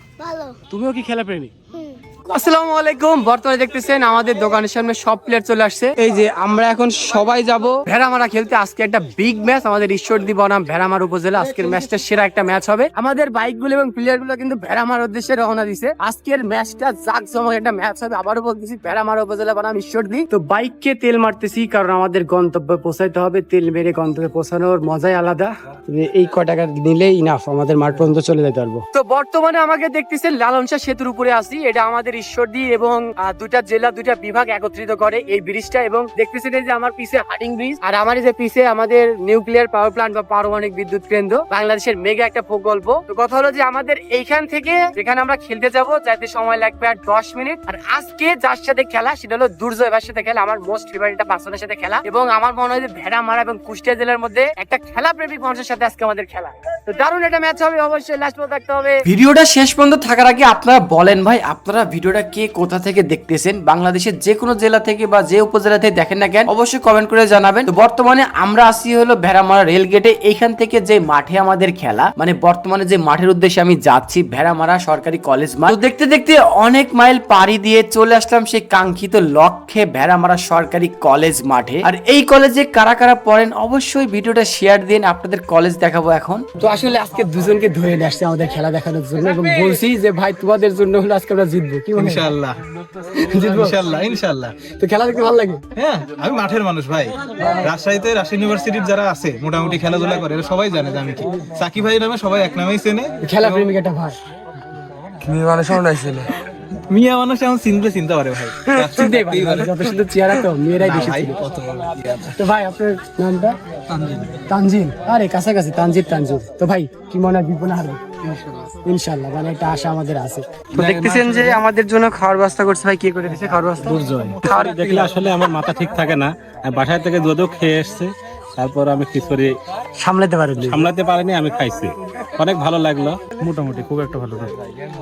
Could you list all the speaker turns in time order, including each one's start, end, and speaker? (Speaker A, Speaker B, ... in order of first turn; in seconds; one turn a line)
Speaker A: 0.7-1.5
Speaker A: 2.3-59.0
Speaker B: 59.1-86.4
Speaker A: 86.6-92.3
Speaker C: 92.0-92.6
Speaker A: 93.2-93.8
Speaker C: 93.3-94.6
Speaker A: 94.8-95.6
Speaker C: 95.8-103.7
Speaker A: 103.2-104.2
Speaker A: 105.2-106.3
Speaker C: 106.9-110.0
Speaker A: 108.8-111.3
Speaker C: 110.8-112.3
Speaker A: 112.4-113.6
Speaker A: 114.5-125.1
Speaker C: 120.8-121.5
Speaker D: 123.8-129.5
Speaker A: 130.0-130.9
Speaker D: 130.6-134.5